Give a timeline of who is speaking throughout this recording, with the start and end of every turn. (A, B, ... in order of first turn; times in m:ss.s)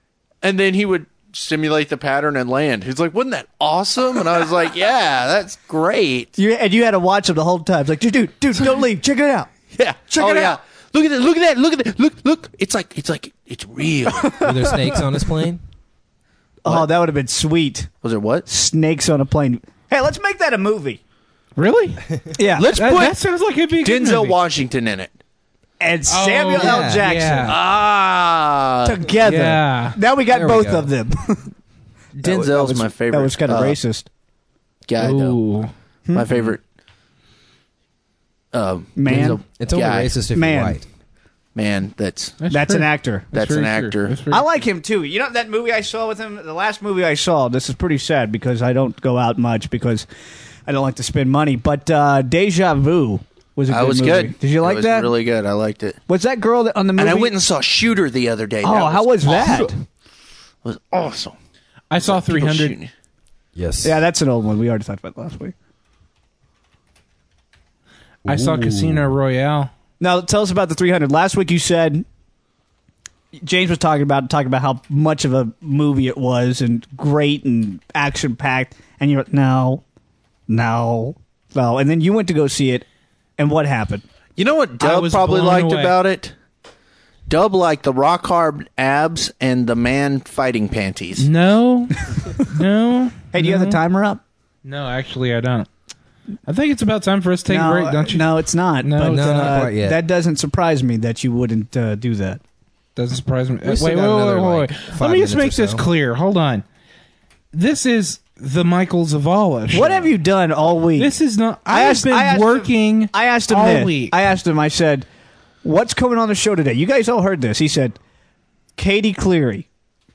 0:00.4-0:06.3 A
0:06.4-0:09.5 B
0:09.7-0:14.4 A
0:10.1-0:10.6 B
0:14.1-0:15.0 B
0:14.4-0:15.6 C
0:16.6-0:17.9 B
0:18.0-0:18.4 A
0:18.4-0:21.0 B
0:21.6-0:22.0 D
0:22.4-0:22.7 B
0:22.5-0:23.2 A
0:22.7-0:24.4 D
0:23.8-0:25.1 A
0:25.8-0:27.5 B
0:26.1-0:27.6 D
0:26.6-0:27.1 C
0:27.5-0:29.0 A
0:28.8-0:31.5 B
0:29.2-0:30.0 D
0:30.3-0:30.9 C
0:32.2-0:33.8 A
0:32.2-0:34.1 B
0:34.8-0:35.4 A
0:35.0-0:35.7 D
0:36.1-0:36.6 A
0:38.5-0:40.2 A
0:39.0-0:39.4 B
0:39.1-0:40.8 C
0:40.3-0:40.8 B
0:41.5-0:42.4 A
0:42.4-0:44.4 D
0:42.5-0:43.3 B
0:43.3-0:44.1 A
0:44.3-0:50.1 B
0:50.7-0:55.1 B
0:53.7-0:56.0 A
0:56.1-0:57.3 B
0:57.0-0:59.7 A
0:58.6-0:59.8 B
1:00.6-1:01.4 A
1:01.9-1:02.8 D
1:02.0-1:02.9 A
1:03.5-1:04.0 C
1:03.8-1:05.5 B
1:08.2-1:09.1 C
1:08.2-1:09.7 D
1:10.0-1:12.0 B
1:13.3-1:19.8 B
1:20.5-1:22.8 B
1:23.4-1:24.0 B
1:24.4-1:26.3 A
1:24.8-1:26.0 D
1:27.3-1:31.3 A
1:31.2-1:33.8 D
1:33.3-1:34.2 B
1:34.6-1:35.7 D
1:36.5-1:38.3 D
1:37.5-1:42.4 B
1:38.8-1:39.6 D
1:39.0-1:40.0 C
1:43.0-1:46.6 D
1:43.6-1:45.8 C
1:47.5-1:50.1 D
1:49.7-1:51.1 B
1:51.0-1:54.2 D
1:51.7-1:55.1 B
1:55.6-1:58.0 B
1:58.8-1:59.6 B